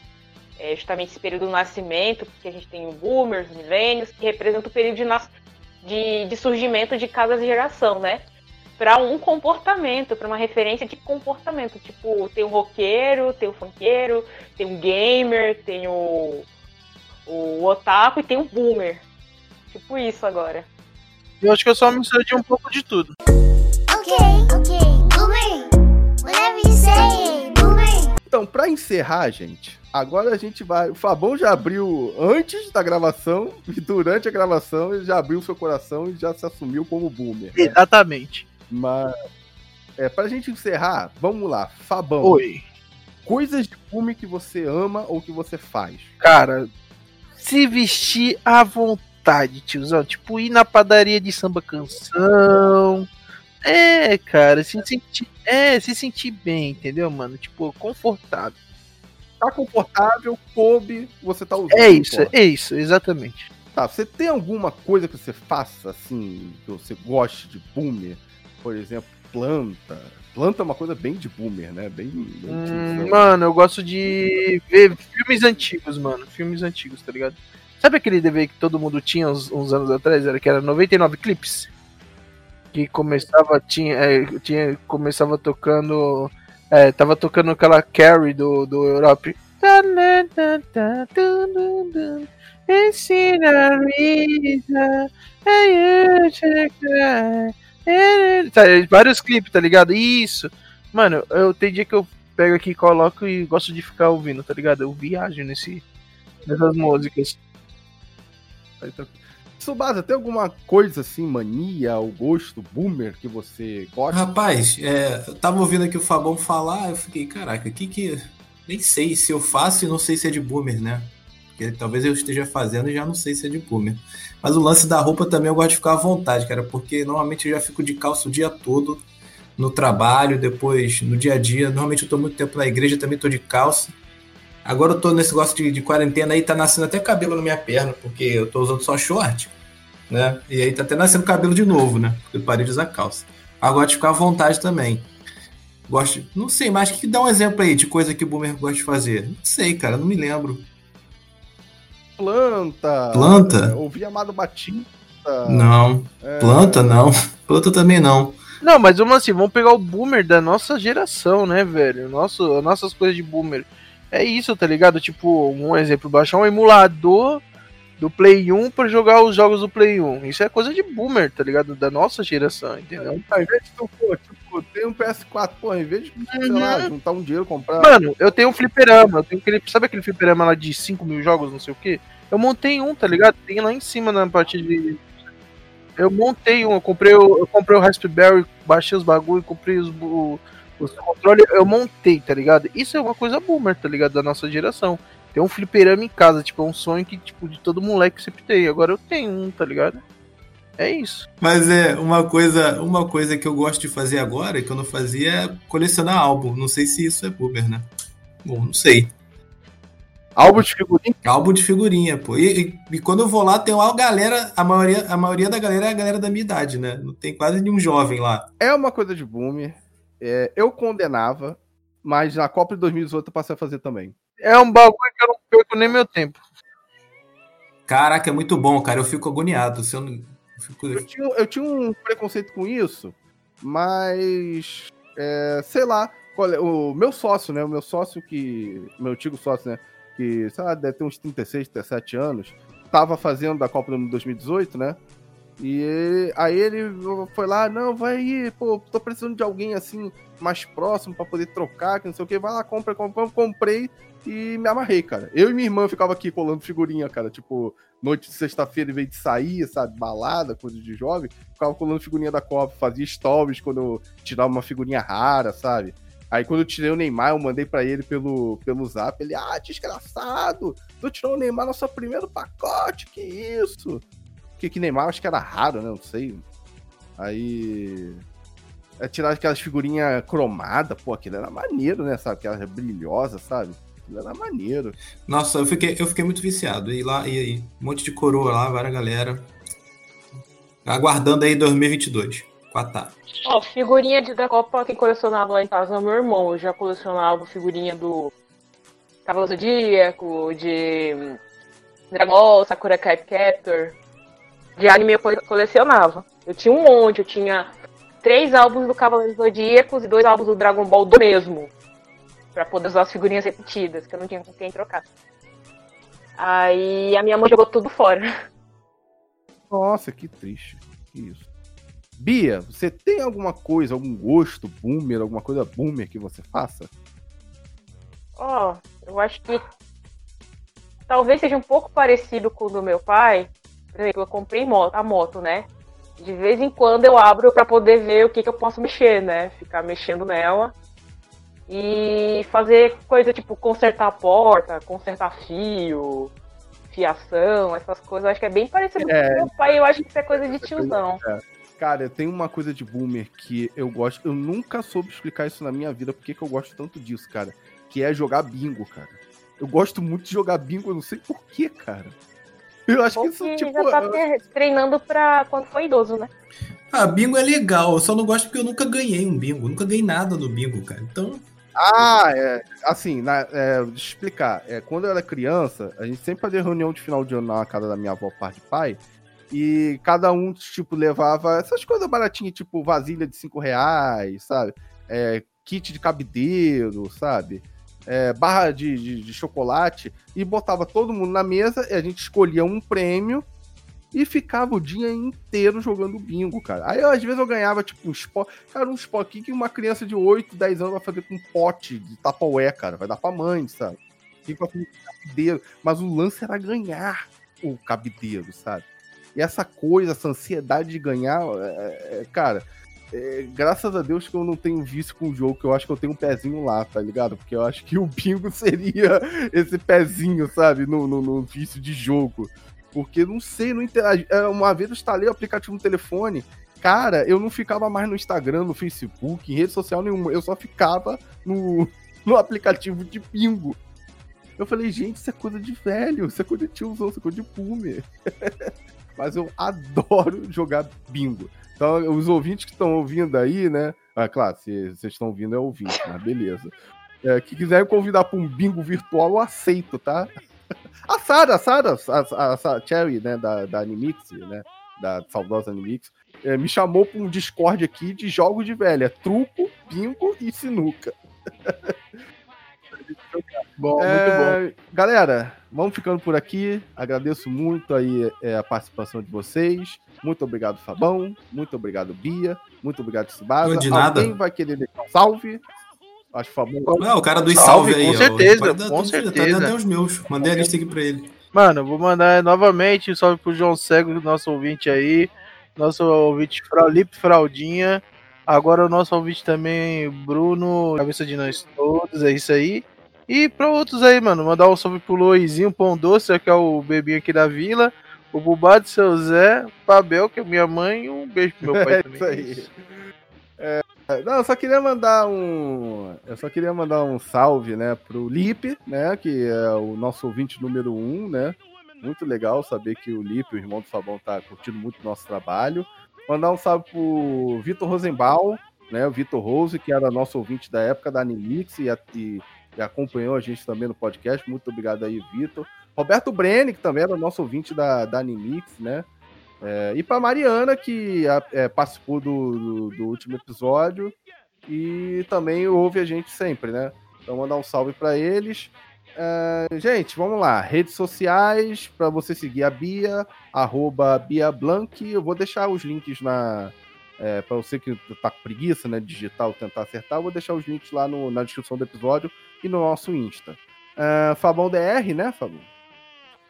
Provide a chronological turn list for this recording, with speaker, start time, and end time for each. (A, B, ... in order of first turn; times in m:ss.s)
0:00.6-0:05.3 A
0:05.8-0:08.2 A
0:08.8-0:16.5 A
0:17.3-0:19.0 A
0:19.7-0:20.7 A
0:21.4-0:23.1 B
0:23.9-0:25.7 C
0:26.2-0:28.1 C
0:28.3-0:37.8 D
0:37.5-0:38.4 B
0:38.7-0:39.1 D
0:40.0-0:42.4 D
0:42.2-0:42.6 B
0:43.2-0:46.1 D
0:46.2-0:46.7 B
0:47.4-0:53.1 B
0:53.6-0:58.5 B
0:59.4-1:02.3 D
1:01.7-1:03.5 B
1:03.7-1:13.3 D
1:12.5-1:21.7 B
1:22.7-1:45.8 B
1:46.4-1:47.4 B
1:48.8-1:54.2 D
1:54.1-2:09.0 E
2:09.6-2:13.9 E
2:14.6-2:19.5 E
2:20.1-2:25.1 E
2:25.9-2:30.7 E
2:32.2-2:37.0 D
2:33.1-2:33.8 E
2:35.4-2:38.4 E
2:38.6-2:47.4 B
2:48.0-2:53.2 B
2:53.0-2:58.0 D
2:56.3-2:56.9 B
2:57.8-3:05.0 B
3:06.0-3:20.0 B
3:20.8-3:21.3 B
3:21.4-3:27.9 E
3:28.4-3:29.1 E
3:30.4-3:31.2 D
3:31.2-3:38.5 E
3:38.6-3:44.1 D
3:44.4-3:46.4 B
3:47.9-3:51.1 E
3:50.9-4:05.0 D
4:05.6-4:34.0 D
4:34.6-4:36.4 D
4:37.2-4:38.2 D
4:39.0-4:45.0 D
4:45.2-4:49.5 E
4:50.8-4:53.2 E
4:53.4-4:58.3 A
4:59.2-5:01.4 A
5:02.1-5:04.0 A
5:04.8-5:07.7 A
5:08.2-5:11.7 A
5:12.5-5:15.0 A
5:16.4-5:18.2 A
5:19.7-5:21.4 D
5:22.2-5:26.9 D
5:28.4-5:29.6 A
5:31.1-5:35.7 A
5:36.2-5:40.7 A
5:41.7-5:46.3 A
5:46.9-5:51.2 A
5:49.0-5:49.7 D
5:50.3-6:02.1 D
6:02.9-6:04.2 D
6:03.2-6:06.3 A
6:06.9-6:11.4 E
6:11.8-6:33.4 D
6:34.1-7:13.8 D
7:14.6-7:26.7 D
7:27.2-7:30.3 D
7:31.1-7:41.9 D
7:43.1-7:44.6 B
7:44.0-7:55.6 D
7:53.6-7:54.3 E
7:56.3-7:57.0 D
7:56.8-7:59.7 B
7:57.0-8:01.3 E
8:01.5-8:22.7 B
8:21.7-8:22.8 D
8:23.6-8:49.1 D
8:49.6-8:54.1 D
8:54.7-9:15.6 D